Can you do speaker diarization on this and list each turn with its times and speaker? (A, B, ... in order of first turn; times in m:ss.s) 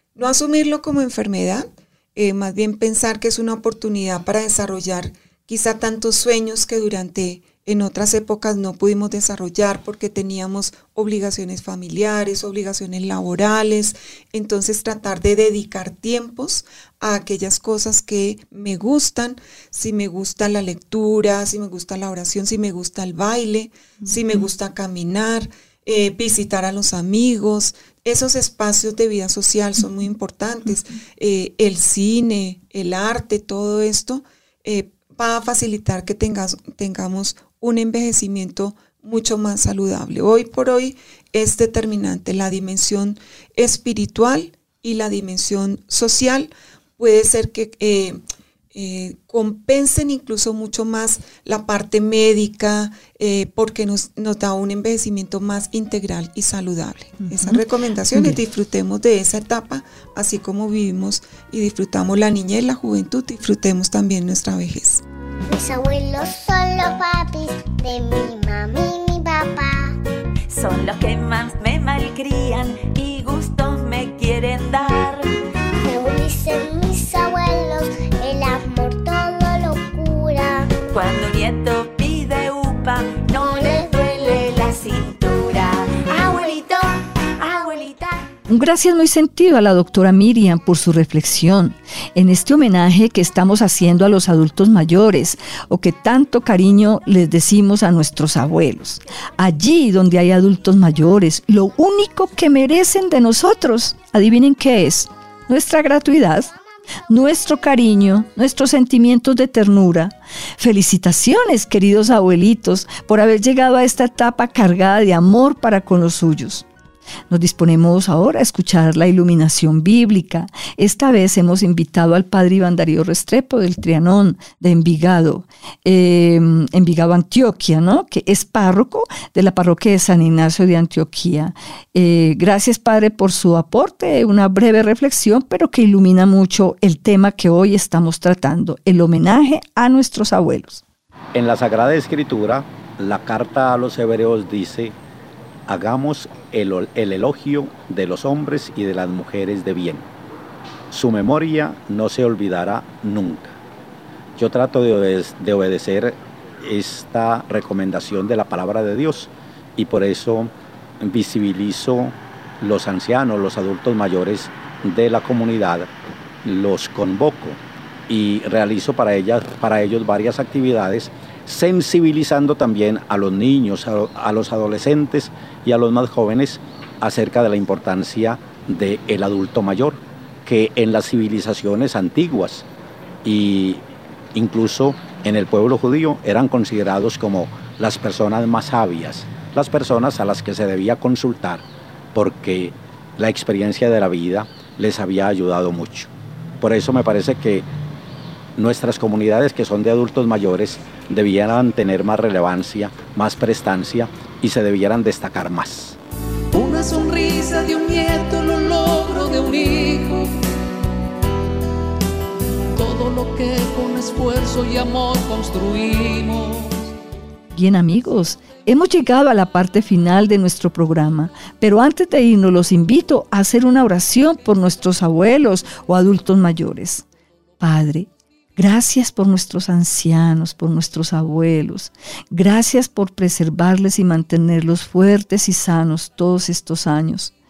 0:00.2-0:48.2 A
0:48.7-1:05.0 A
1:05.5-1:09.9 B
1:10.5-1:15.3 C
1:15.8-1:20.7 B
1:20.8-1:28.2 C
1:23.4-1:23.9 B
1:26.2-1:26.6 B
1:28.5-1:46.5 D
1:47.1-1:56.7 D
1:57.3-2:20.8 D
2:21.3-2:25.0 E
2:25.7-2:30.1 E
2:30.9-2:33.6 E
2:34.4-2:45.9 E
2:46.4-3:02.7 E
3:03.2-3:17.7 E
3:18.6-3:26.0 E
3:26.5-3:30.3 F
3:32.8-3:36.9 F
3:37.5-3:47.0 D
3:47.6-3:57.3 D